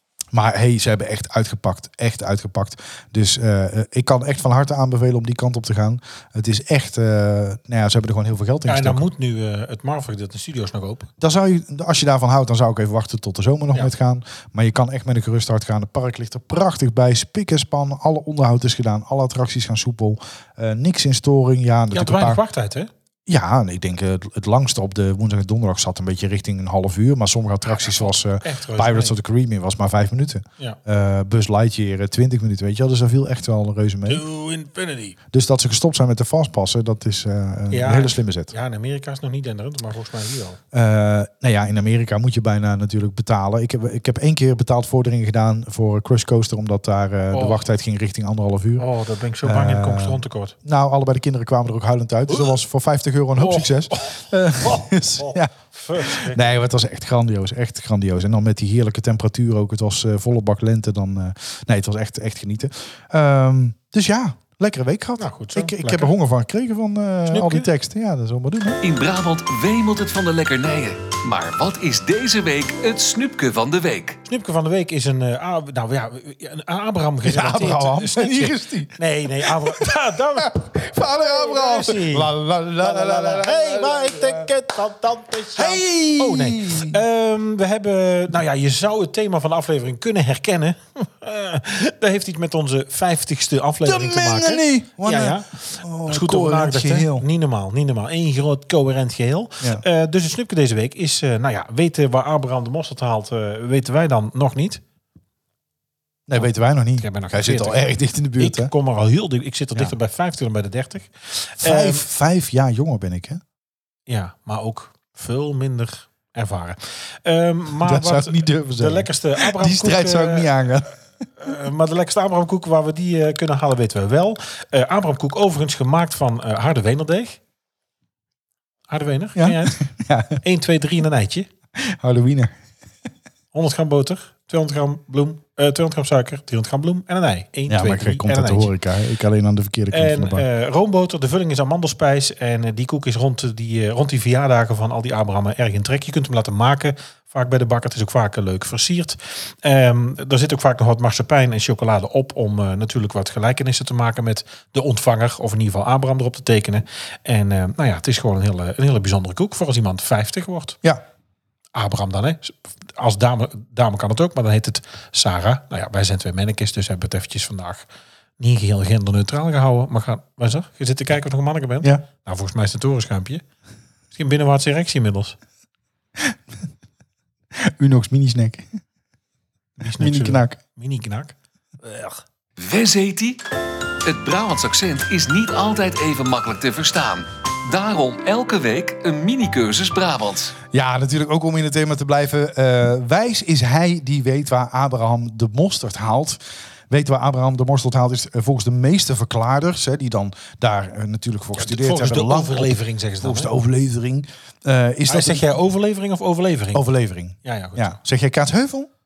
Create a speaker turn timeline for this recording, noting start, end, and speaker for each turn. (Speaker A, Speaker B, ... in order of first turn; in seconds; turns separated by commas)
Speaker A: 0.3-9.1, Speaker B: 8.7-11.1, Speaker A: 11.2-22.4, Speaker B: 21.9-22.9, Speaker A: 23.3-34.2, Speaker B: 27.7-29.2, Speaker B: 34.1-35.2, Speaker A: 35.3-38.5, Speaker B: 37.7-40.6, Speaker A: 40.7-48.9, Speaker B: 47.3-47.7, Speaker B: 48.8-50.5, Speaker A: 49.4-68.8, Speaker B: 52.3-52.6, Speaker B: 53.4-56.5, Speaker B: 65.2-66.1, Speaker B: 67.3-67.7, Speaker C: 68.8-74.2, Speaker B: 74.2-104.8, Speaker A: 77.2-84.5, Speaker A: 85.5-87.0, Speaker A: 93.8-97.2, Speaker A: 106.3-108.7, Speaker B: 107.0-112.0, Speaker A: 111.6-113.4, Speaker B: 114.1-120.5, Speaker A: 117.8-121.0, Speaker B: 121.4-127.4, Speaker B: 128.9-129.8, Speaker A: 129.4-130.4, Speaker B: 130.4-131.5, Speaker A: 131.8-132.6, Speaker B: 133.5-138.7, Speaker A: 137.7-140.4, Speaker B: 139.9-160.8, Speaker B: 161.8-167.9, Speaker B: 168.4-173.4, Speaker B: 174.1-175.4, Speaker A: 177.6-178.8, Speaker B: 179.8-182.2, Speaker A: 180.0-180.6, Speaker C: 182.6-183.4, Speaker C: 184.1-190.6, Speaker A: 190.7-205.5, Speaker B: 201.6-203.5, Speaker B: 205.1-206.9, Speaker A: 206.7-208.9, Speaker B: 207.4-208.0